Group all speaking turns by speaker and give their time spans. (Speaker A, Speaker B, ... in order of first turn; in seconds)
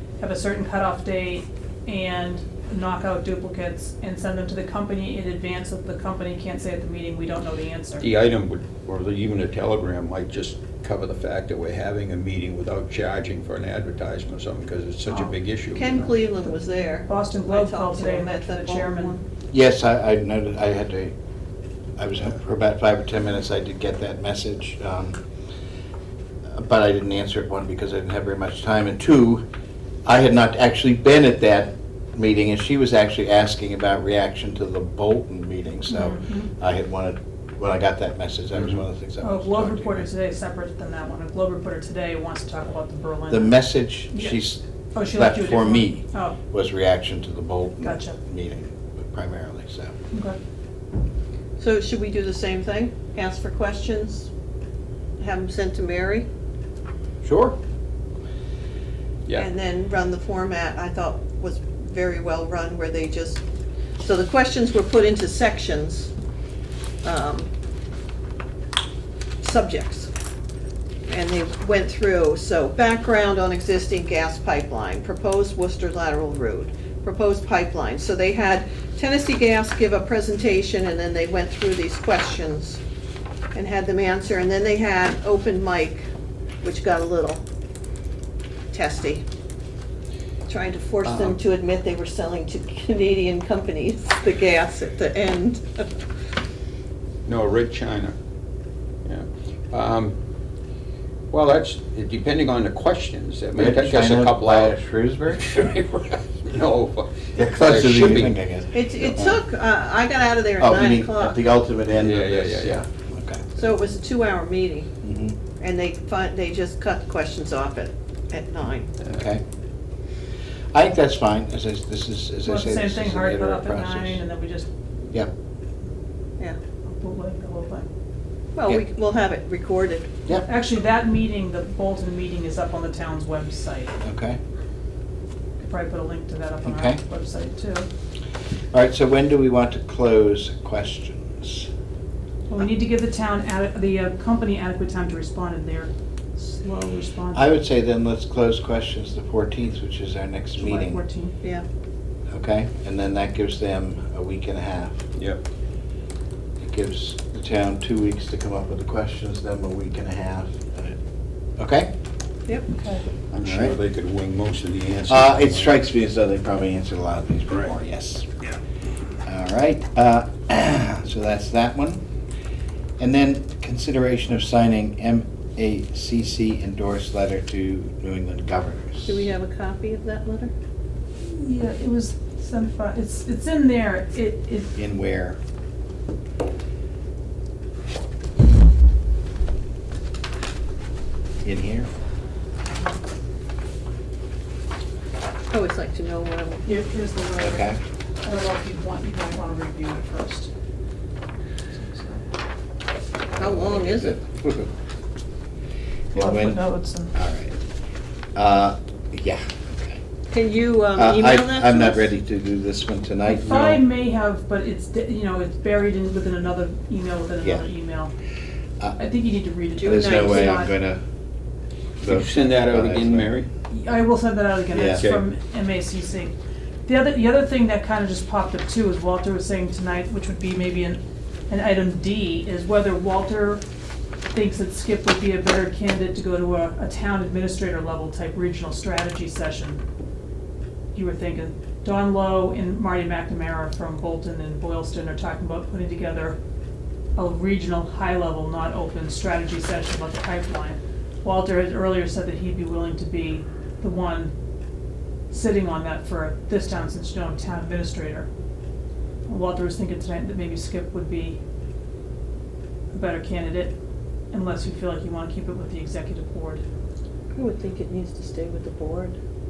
Speaker A: 0.2-8.1, 17.1-19.2, 35.9-36.5, 39.2-44.4, 44.9-46.4, 47.8-48.2, 50.1-50.4, 122.5-124.7, 126.9-127.9, 130.4-133.9, 135.6-137.9, 142.5-147.5, 150.6-151.4, 162.7-163.1, 181.2-184.7, 196.7-200.5, 201.7-202.2, 206.1-207.1, 213.3-218.1, 219.0-220.7, 223.7-226.3, 226.9-233.6, 234.3-239.8, 240.9-246.4, 247.2-254.3, 255.3-258.3, 259.3-261.4, 262.9-263.8, 264.3-266.6
Speaker B: 8.0-16.1, 91.0-91.4, 97.3-98.2, 99.0-100.2, 101.3-104.8, 105.3-108.3, 112.0-112.8, 163.3-165.8, 222.1-223.5, 225.0-225.2
Speaker C: 15.8-19.2, 51.6-54.3, 55.2-56.3, 59.4-63.4, 64.0-66.1, 67.0-67.5, 69.4-70.1, 71.1-82.8, 83.5-86.0, 86.6-87.4, 88.7-89.2, 90.5-96.0, 108.7-111.4, 113.5-114.9, 115.6-118.9, 128.6-130.1, 179.1-180.5, 195.5-196.6, 203.4-204.2, 210.3-212.1, 219.8-220.6, 267.4-269.2
Speaker D: 19.5-21.1, 22.0-25.2, 26.5-29.4, 30.1-40.0, 43.3-50.0, 57.2-57.6, 103.6-105.5, 107.4-109.4, 110.6-113.5, 115.0-115.4, 119.1-119.4, 120.7-124.2, 134.0-134.4, 136.7-137.0, 138.7-141.7, 147.3-151.0, 152.3-155.0, 156.6-161.0, 161.6-161.9, 163.4-163.8, 165.1-168.3, 169.2-172.0, 173.0-179.2, 184.8-185.4, 191.4-191.9, 197.4-197.8, 203.4-204.7, 206.1-206.6, 207.1-207.6, 208.3-210.0, 211.0-213.8, 217.4-217.7, 219.8-221.0, 222.0-223.4, 224.7-225.1